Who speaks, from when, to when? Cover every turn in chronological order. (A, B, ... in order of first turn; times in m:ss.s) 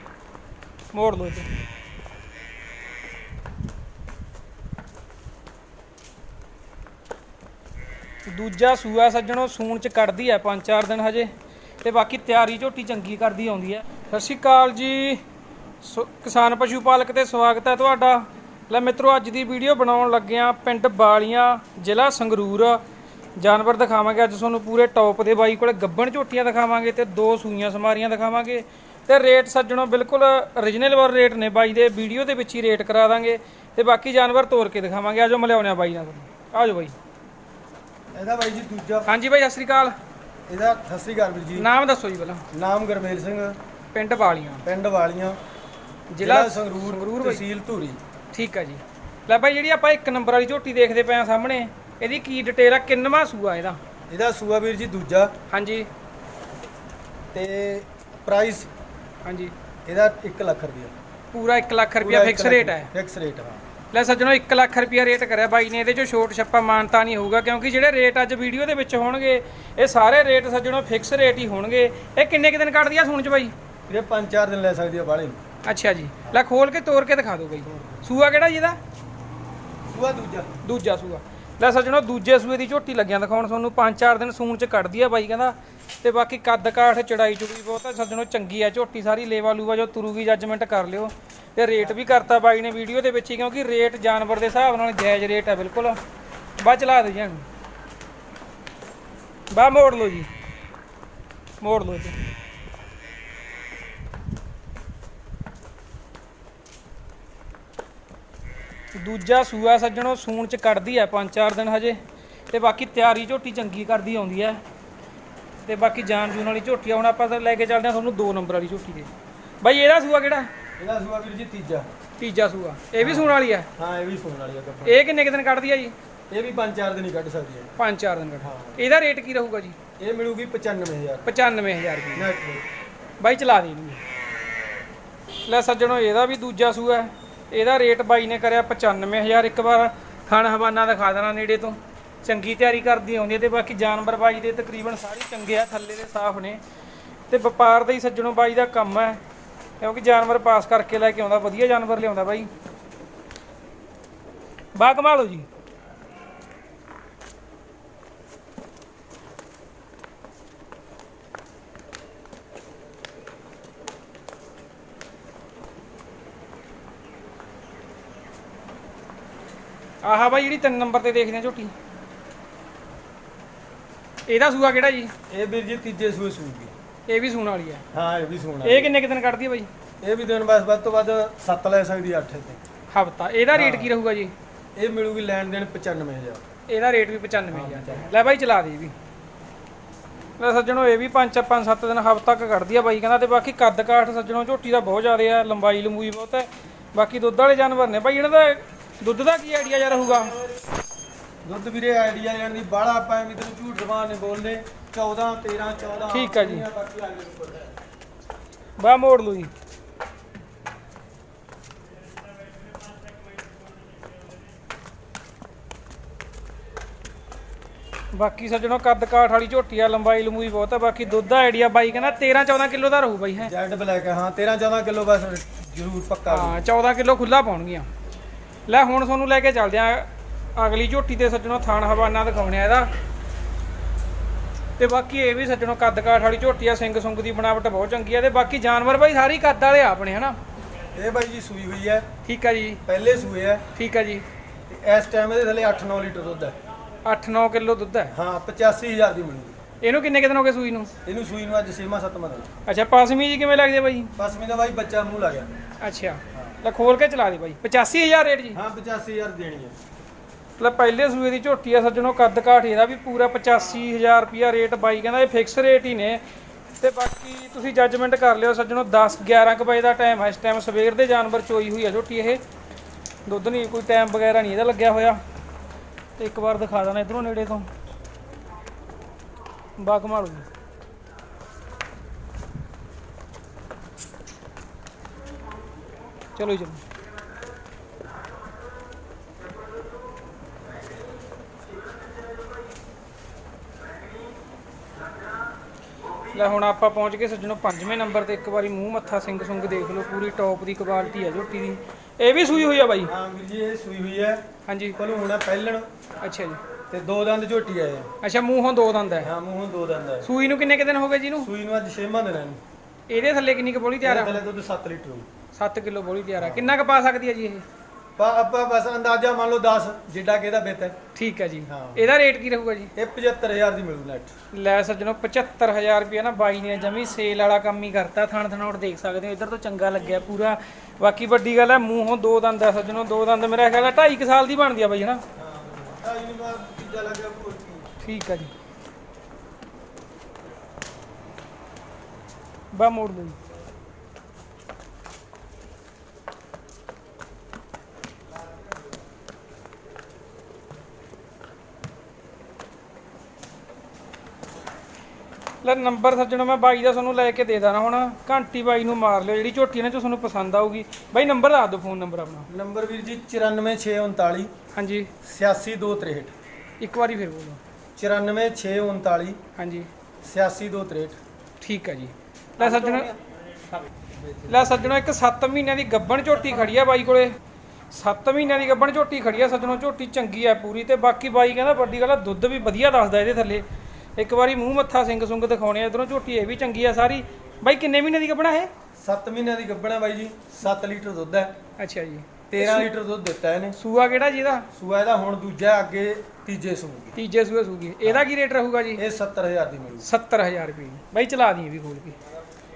0:00.9-0:01.5 A
0:08.3-0:15.2 A
0:15.8-0:22.8 A
0:23.4-0:36.9 A
0:38.1-0:39.1 B
0:39.0-0:39.9 A
0:40.5-0:41.7 B
0:41.6-0:42.4 A
0:42.5-0:43.6 B
0:43.9-0:44.6 A
0:44.6-0:45.4 B
0:46.1-0:47.4 A
0:46.2-0:48.0 B
0:48.3-0:53.8 A
0:54.1-0:55.3 B
0:55.5-0:55.9 A
0:57.3-0:58.7 B
0:59.2-0:59.5 A
0:59.8-1:00.9 B
1:01.3-1:02.9 A
1:02.0-1:03.6 B
1:03.9-1:13.5 A
1:13.9-1:15.4 B
1:15.6-1:18.8 A
1:17.6-1:18.0 B
1:19.9-1:20.5 B
1:20.6-1:36.0 A
1:36.6-1:37.4 A
1:39.5-1:40.3 A
1:41.6-1:42.2 A
1:49.0-1:54.6 A
1:55.6-2:00.5 A
2:00.8-2:01.9 B
2:02.2-2:03.7 A
2:03.0-2:05.0 B
2:04.8-2:05.9 A
2:06.3-2:07.7 B
2:07.8-2:09.8 A
2:08.4-2:08.8 B
2:10.0-2:11.3 B
2:11.2-2:12.3 A
2:12.1-2:12.6 B
2:13.2-2:14.0 A
2:15.4-2:26.6 A
2:27.3-2:29.2 A
2:29.8-2:32.5 A
2:34.8-2:35.4 A
2:50.0-2:51.7 A
2:54.3-2:55.1 A
2:55.3-2:56.7 B
2:57.1-2:57.8 A
2:57.9-2:58.9 B
2:58.6-2:59.7 A
3:00.0-3:02.6 B
3:02.9-3:04.3 A
3:03.5-3:03.9 B
3:04.8-3:06.4 B
3:06.7-3:08.9 A
3:07.5-3:08.1 B
3:10.4-3:20.4 A
3:21.4-3:27.7 B
3:26.1-3:26.7 A
3:28.8-3:29.5 A
3:38.1-3:43.5 A
3:43.4-3:46.6 B
3:46.3-3:47.9 A
3:48.7-3:52.9 A
3:54.8-4:00.4 A
4:00.9-4:02.1 B
4:02.2-4:02.8 A
4:02.8-4:03.7 B
4:03.7-4:04.2 A
4:04.7-4:06.6 B
4:07.0-4:08.1 A
4:08.1-4:09.6 B
4:09.8-4:10.9 A
4:11.0-4:12.5 B
4:12.7-4:14.1 A
4:14.2-4:15.5 B
4:15.8-4:18.6 A
4:18.5-4:19.8 B
4:20.6-4:26.2 A
4:26.8-4:32.4 A
4:33.2-4:35.2 A
4:36.2-4:37.7 A
4:39.8-4:40.5 A
4:46.4-4:46.8 A
4:56.3-5:03.1 A
5:03.0-5:04.4 B
5:04.7-5:05.0 A
5:04.9-5:05.9 B
5:06.2-5:06.6 A
5:06.9-5:08.1 B
5:08.2-5:09.3 A
5:09.2-5:10.3 B
5:10.2-5:11.5 A
5:11.4-5:12.6 B
5:13.1-5:14.4 A
5:14.0-5:15.3 B
5:15.5-5:17.6 A
5:16.4-5:16.7 B
5:18.2-5:21.0 B
5:21.1-5:22.9 A
5:21.7-5:22.1 B
5:22.9-5:24.3 B
5:24.5-5:35.2 A
5:35.4-5:37.9 B
5:38.0-5:38.5 A
5:42.7-5:43.4 A
5:55.6-6:02.5 A
6:02.5-6:04.5 B
6:04.7-6:05.1 A
6:05.2-6:06.3 B
6:06.8-6:07.6 A
6:08.0-6:09.4 B
6:09.6-6:09.9 A
6:10.2-6:11.2 B
6:11.6-6:13.1 A
6:12.7-6:13.0 B
6:14.2-6:14.9 B
6:14.5-6:17.4 A
6:17.9-6:23.6 A
6:24.2-6:28.7 A
6:29.0-6:31.5 B
6:31.8-6:32.9 A
6:32.5-6:33.8 B
6:33.8-6:34.7 A
6:34.7-6:37.2 B
6:37.2-6:39.0 A
6:39.0-6:40.1 B
6:40.0-6:42.2 A